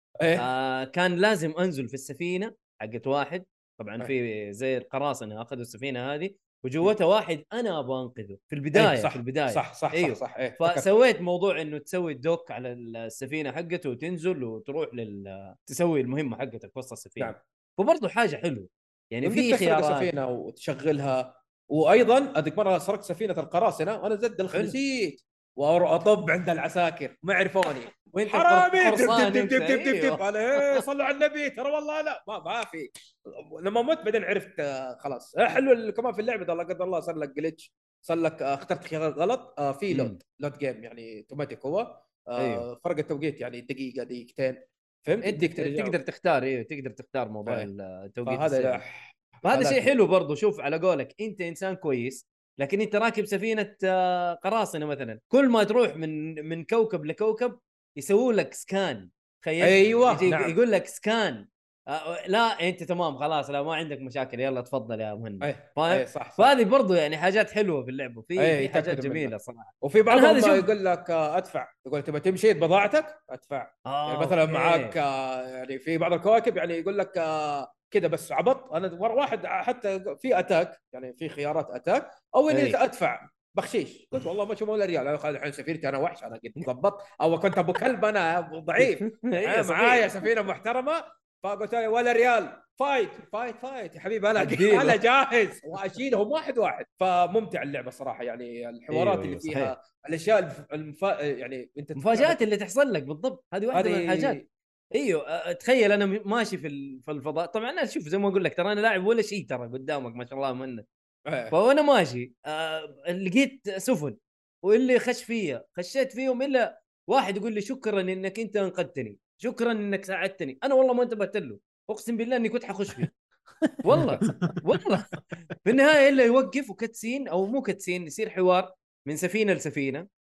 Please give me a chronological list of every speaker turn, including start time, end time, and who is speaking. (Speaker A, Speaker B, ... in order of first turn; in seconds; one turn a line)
Speaker A: 0.2-0.5
Speaker B: 0.4-20.1
Speaker A: 8.7-10.8
Speaker A: 19.2-46.0
Speaker B: 28.1-30.8
Speaker B: 39.9-40.2
Speaker B: 42.4-42.6
Speaker B: 45.2-48.8
Speaker A: 48.2-49.9
Speaker B: 49.4-70.7
Speaker A: 59.6-60.5
Speaker A: 65.4-66.5
Speaker A: 68.4-102.4
Speaker B: 73.8-75.0
Speaker B: 82.5-82.8
Speaker B: 88.8-90.2
Speaker B: 94.4-95.0
Speaker B: 98.9-99.7
Speaker B: 102.0-104.4
Speaker A: 103.7-104.4
Speaker B: 104.9-110.8
Speaker A: 111.3-111.5
Speaker B: 111.5-123.1
Speaker B: 123.8-130.1